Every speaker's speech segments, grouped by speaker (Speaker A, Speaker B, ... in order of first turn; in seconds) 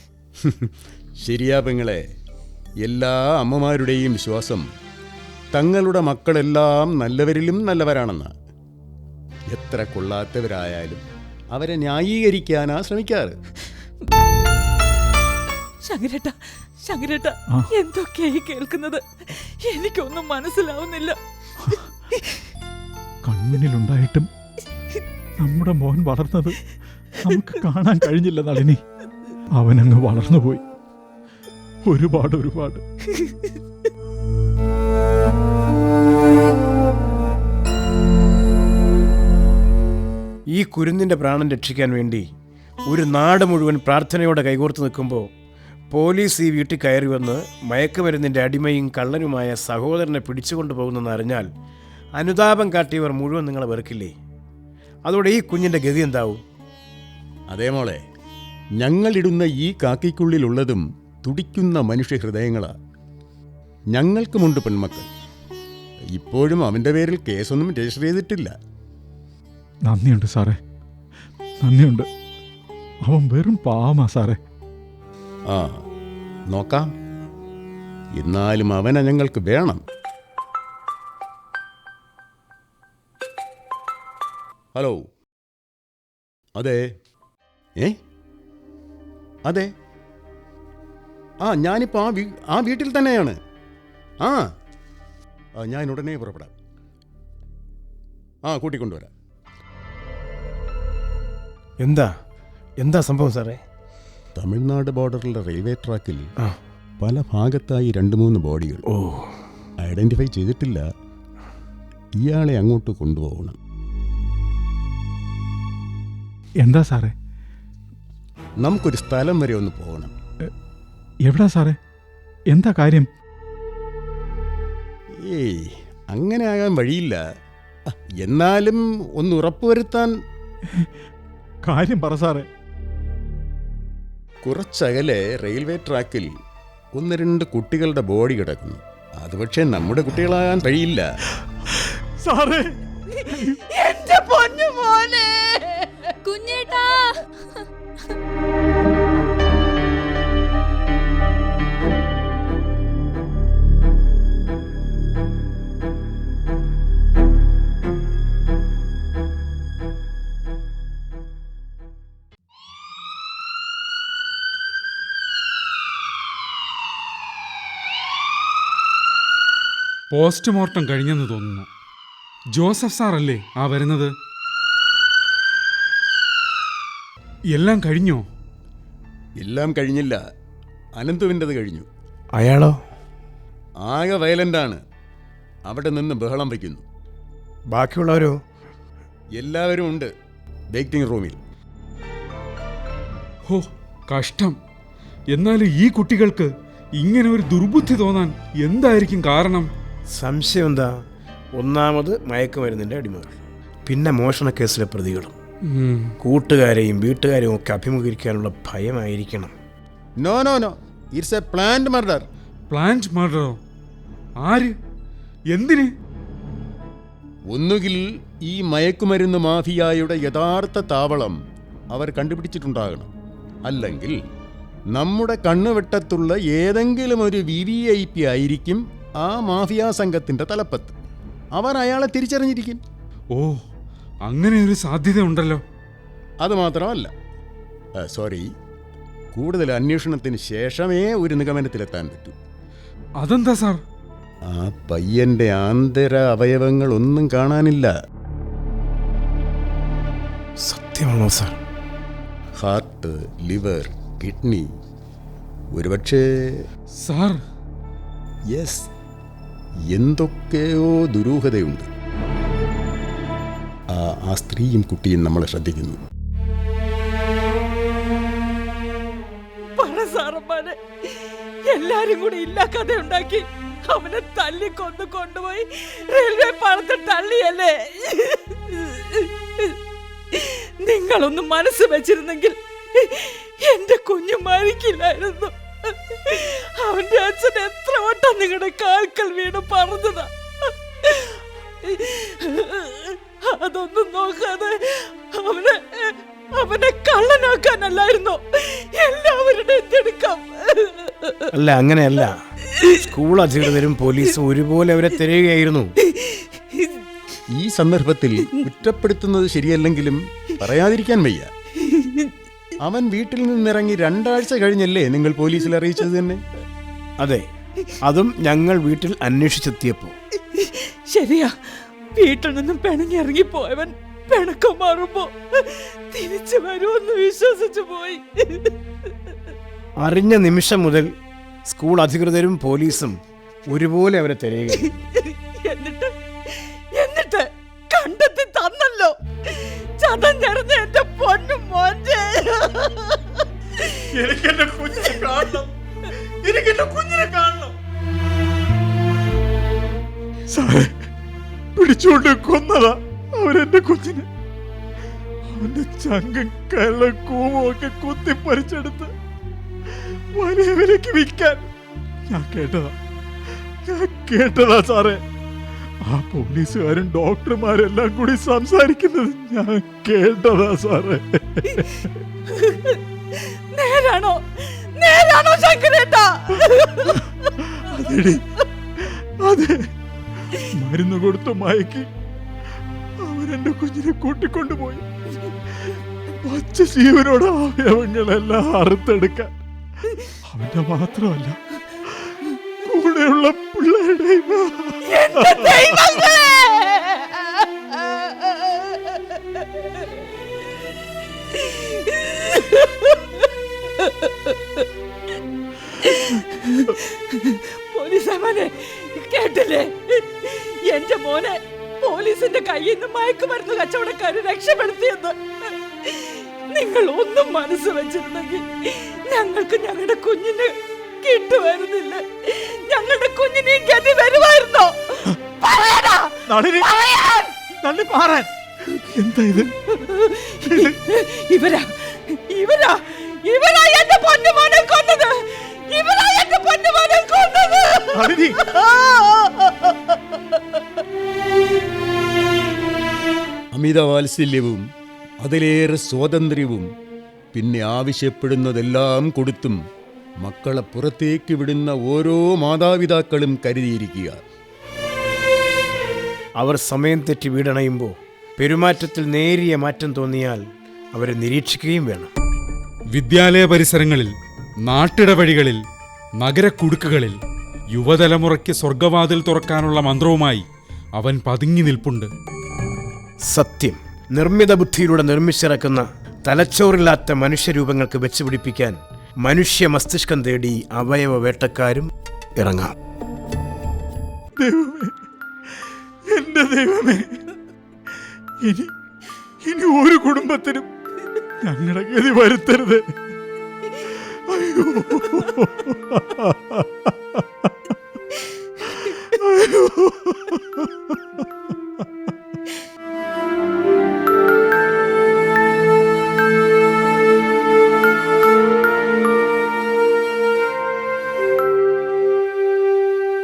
Speaker A: 0.4-2.0, 2.8-4.7, 5.5-8.3, 9.5-13.4, 57.5-58.0, 58.8-62.7, 63.9-65.1, 66.1-68.5, 75.5-75.8, 76.5-76.9, 78.2-79.8, 84.8-85.0, 91.4-93.4, 94.2-94.5, 95.6-96.5, 98.5-99.1, 104.4-106.3, 107.0-108.8, 109.8-110.8, 112.2-113.6, 118.6-120.1, 125.2-127.2, 128.2-130.1, 134.4-136.3, 137.0-141.1, 179.4-180.2, 181.0-181.9, 183.8-184.8, 185.7-186.8, 189.4-190.1, 190.7-191.4, 210.2-212.3, 217.5-221.4, 221.9-223.1, 223.7-224.2, 224.9-231.0, 231.6-232.8, 236.4-237.1, 238.0-238.5, 239.3-242.4, 244.5-247.9, 252.6-254.7, 255.8-256.6, 258.5-258.9, 259.9-261.9, 263.9-266.0, 307.5-311.5, 312.8-316.4, 438.8-439.6, 443.7-444.8, 445.4-446.9, 447.5-449.8, 450.4-454.4
Speaker B: 15.9-21.2, 143.3-147.0, 269.8-270.8, 271.7-279.8, 280.3-301.5, 306.3-306.9, 312.0-312.3, 320.6-321.5, 322.2-328.7, 335.6-343.2, 372.6-373.0, 373.7-377.2, 395.1-397.6, 398.4-398.7, 401.5-403.2, 404.0-404.8, 406.0-415.4, 416.0-427.5, 429.9-438.3
Speaker C: 23.3-24.3, 25.4-26.6, 27.2-28.8, 29.6-30.6, 31.9-32.8, 69.9-70.6, 71.6-72.1, 73.0-74.4, 116.6-117.1, 121.3-121.8, 122.5-123.1, 131.7-132.5, 141.4-143.6, 344.1-345.7, 346.4-347.8, 350.5-351.1, 351.8-354.3, 355.5-359.1, 359.9-361.7, 362.3-362.9, 363.9-365.2, 366.1-372.1, 376.6-378.4, 379.0-379.9, 380.7-382.1, 383.2-385.1, 385.9-389.5, 390.5-396.3, 426.5-427.1, 427.8-428.5, 429.0-429.7, 430.7-431.0, 438.1-438.6, 484.6-485.2, 485.8-487.4, 488.6-488.9, 489.6-490.9, 491.6-493.1, 494.2-497.9, 499.2-502.3
Speaker D: 40.5-42.3, 42.9-45.3, 45.9-51.5, 52.2-54.1, 55.1-56.4, 101.8-102.1, 102.8-103.6, 108.9-109.3, 182.3-182.8, 187.7-188.4, 200.1-200.9, 201.6-205.4, 206.2-209.6, 250.6-251.6, 301.5-302.4, 303.1-305.9, 318.0-320.1, 330.0-331.1, 331.7-335.0, 456.6-460.6, 461.1-462.3, 473.5-482.9
Speaker E: 170.1-171.7, 172.6-174.1, 177.5-178.2, 193.5-194.6, 195.3-199.7, 205.7-206.2, 212.7-213.6, 214.4-214.8, 215.5-215.9, 233.3-233.6, 234.3-235.6, 243.2-243.8, 257.0-257.4, 463.1-464.3, 464.9-465.8, 466.4-467.4, 467.9-470.6, 471.2-472.3